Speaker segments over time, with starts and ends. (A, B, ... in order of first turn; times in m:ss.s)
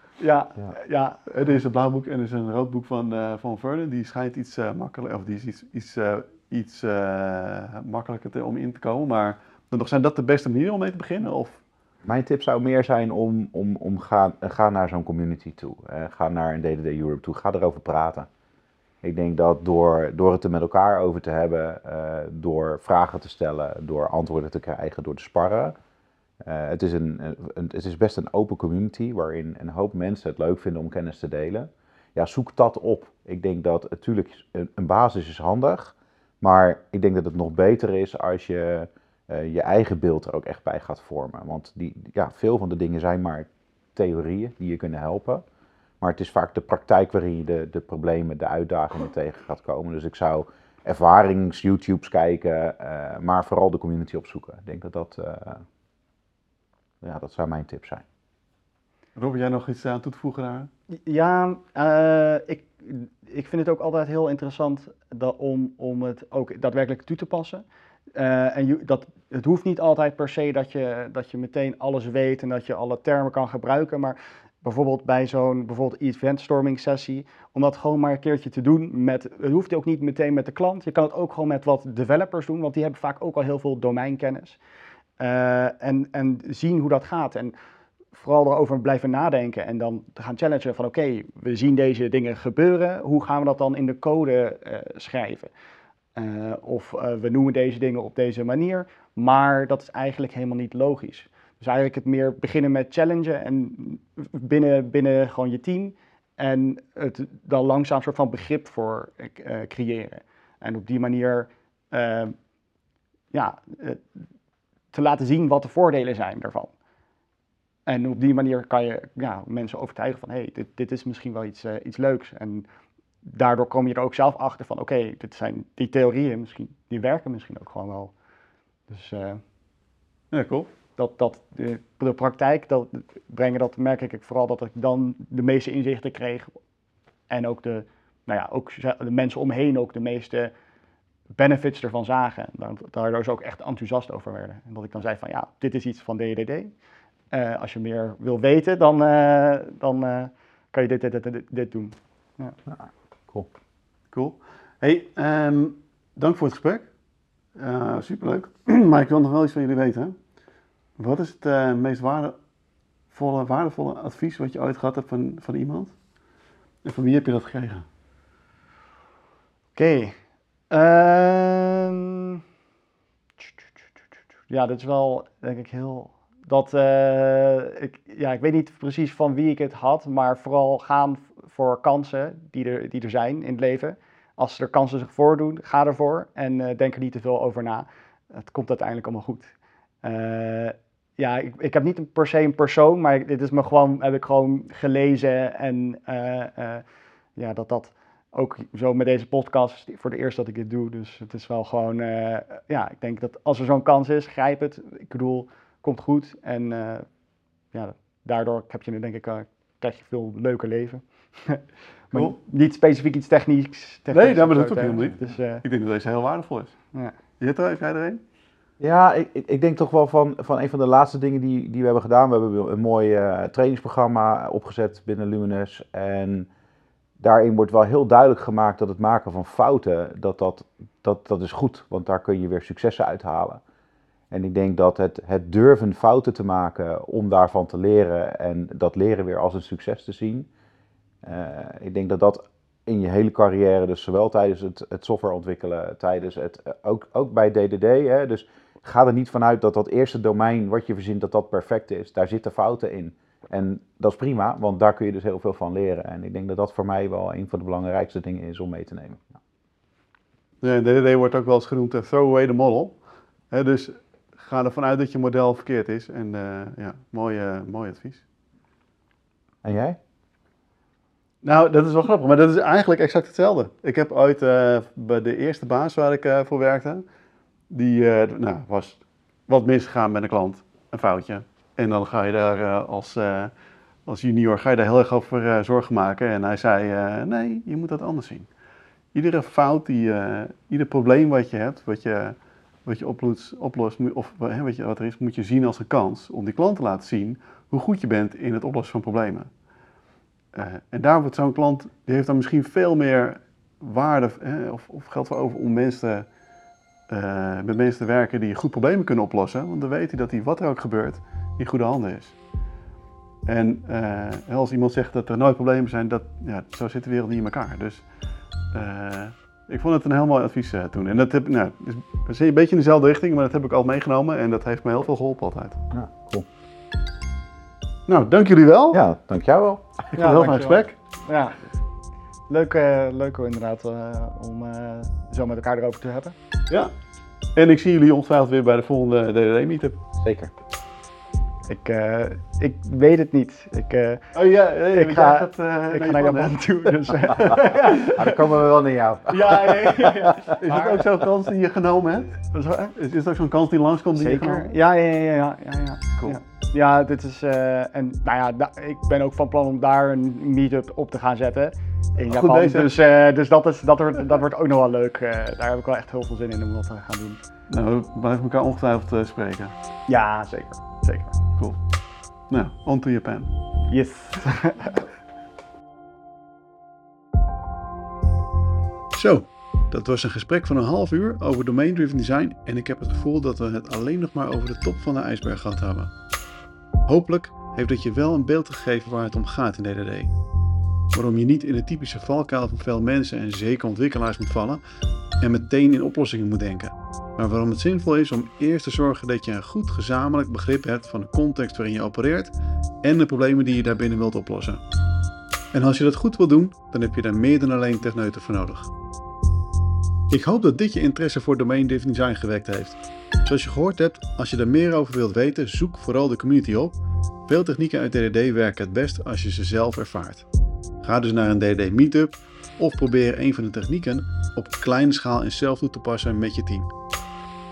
0:00.2-0:01.3 A
0:01.3-0:11.6 B
0:12.0-0:18.3 C
0:19.0-0:25.7 C
0:26.4-0:45.4 C
0:46.0-0:55.6 C
0:57.0-0:58.0 C
0:59.1-1:00.7 B
1:01.0-1:07.6 A
1:08.2-1:24.6 A
1:25.2-1:27.5 A
1:28.1-1:35.5 A
1:36.2-1:52.3 A
1:53.3-1:54.0 A
1:54.9-1:56.7 A
1:57.9-2:02.7 A
2:03.2-2:08.1 A
2:08.9-2:09.4 A
2:10.3-2:10.7 B
2:11.0-2:16.5 A
2:17.3-2:20.5 A
2:21.4-2:26.7 A
2:27.3-2:32.6 A
2:32.7-2:33.5 C
2:34.1-2:36.9 B
2:37.6-2:40.1 B
2:41.0-2:42.4 B
2:43.1-2:45.9 B
2:46.8-2:47.8 B
2:49.8-2:50.1 A
2:50.7-2:52.4 A
2:54.5-3:16.8 A
3:17.4-3:27.0 A
3:27.7-3:35.6 A
3:34.1-3:36.8 B
3:37.4-3:38.2 B
3:38.8-3:46.5 C
3:47.2-3:53.6 C
3:54.3-4:00.5 C
4:01.2-4:19.4 C
4:20.6-4:23.0 B
4:23.5-4:28.2 B
4:29.6-4:30.0 C
4:31.4-4:37.0 B
4:37.7-4:43.5 B
4:44.1-4:48.5 B
4:49.1-4:59.5 B
5:00.5-5:06.3 B
5:07.1-5:12.4 B
5:13.5-5:18.0 B
5:18.7-5:25.8 B
5:25.9-5:26.5 C
5:28.1-5:29.0 B
5:28.9-5:30.1 C
5:30.1-5:30.9 B
5:30.1-5:31.6 A
5:32.5-5:36.3 A
5:37.6-5:40.0 B
5:40.2-5:40.5 C
5:41.7-5:44.2 A
5:44.3-5:47.5 B
5:44.9-5:48.4 A
5:47.5-5:50.4 C
5:49.3-5:51.1 A
5:50.4-5:52.4 B
5:52.4-5:52.9 A
5:53.0-5:54.7 B
5:54.2-6:07.4 A
6:02.3-6:02.9 B
6:07.7-6:09.7 B
6:10.1-6:11.4 A
6:12.5-6:13.5 B
6:13.9-6:15.1 A
6:19.2-6:26.1 B
6:27.1-6:30.3 B
6:31.1-6:34.8 B
6:35.4-6:44.8 B
6:45.7-6:48.9 B
6:50.3-7:00.5 B
7:01.0-7:06.9 B